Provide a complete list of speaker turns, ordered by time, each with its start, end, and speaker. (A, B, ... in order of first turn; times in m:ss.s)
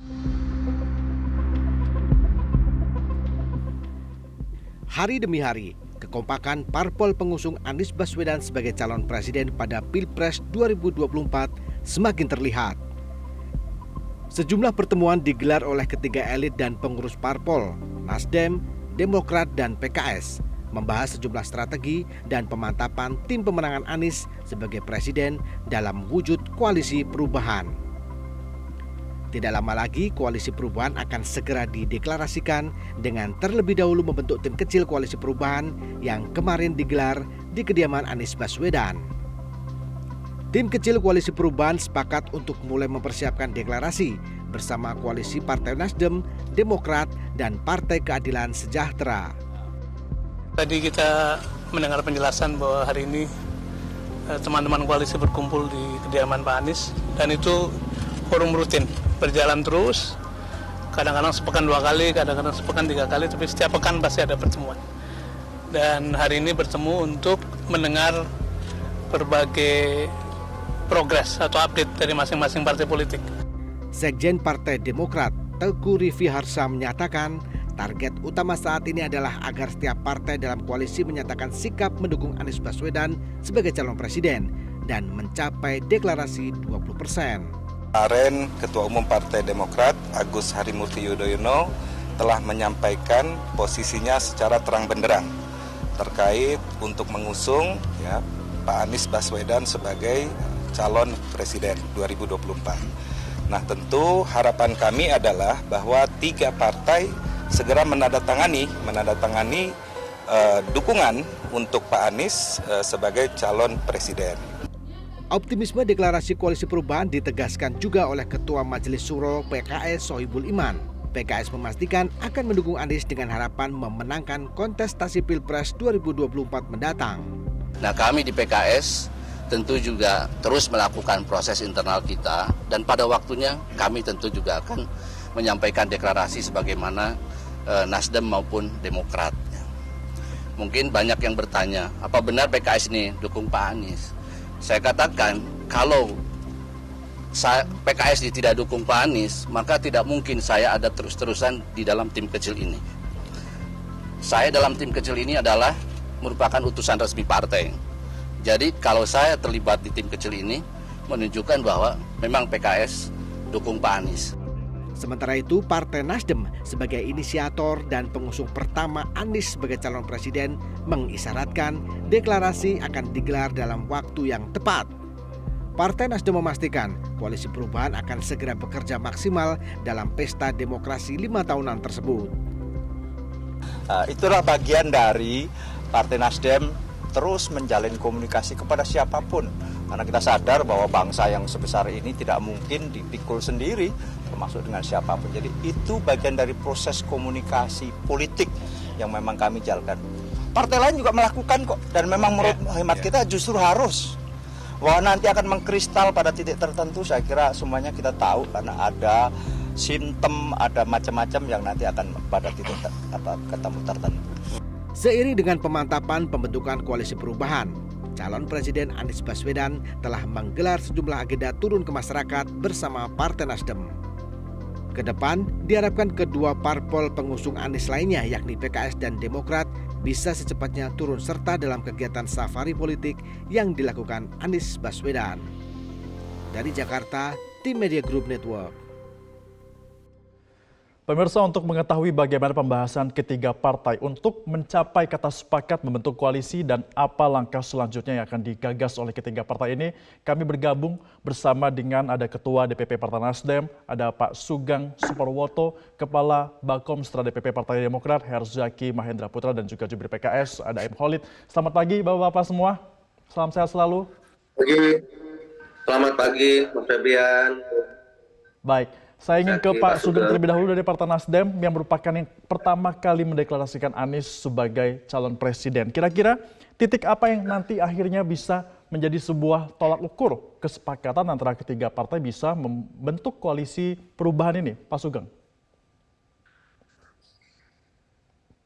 0:04.9-0:12.8 A
0:14.3-0:27.7 A
0:29.3-0:39.0 A
0:40.5-0:49.3 A
0:50.6-0:53.3 B
0:54.3-0:57.8 B
0:58.3-1:00.2 B
1:00.9-1:04.8 B
1:05.7-1:08.2 B
1:09.1-1:10.1 B
1:10.9-1:13.2 B
1:14.0-1:27.5 A
1:27.9-1:35.3 C
1:36.0-1:42.8 C
1:43.5-1:49.7 C
1:50.3-1:54.4 C
1:55.3-2:07.3 A
2:07.8-2:17.1 D
2:17.7-2:19.6 D
2:20.6-2:24.1 D
2:24.6-2:26.2 D
2:27.3-2:32.8 D
2:34.2-2:37.8 D
2:38.4-2:44.3 D
2:45.0-2:54.9 A
2:55.8-3:02.4 A
3:03.9-3:20.0 E
3:20.5-3:24.2 E
3:24.8-3:34.2 E
3:35.0-3:43.9 A
3:44.9-3:55.4 A
3:56.5-3:58.7 A
4:01.1-4:22.8 F
4:23.3-4:24.1 F
4:25.9-4:27.6 G
4:28.6-4:45.3 F
4:29.4-4:30.4 G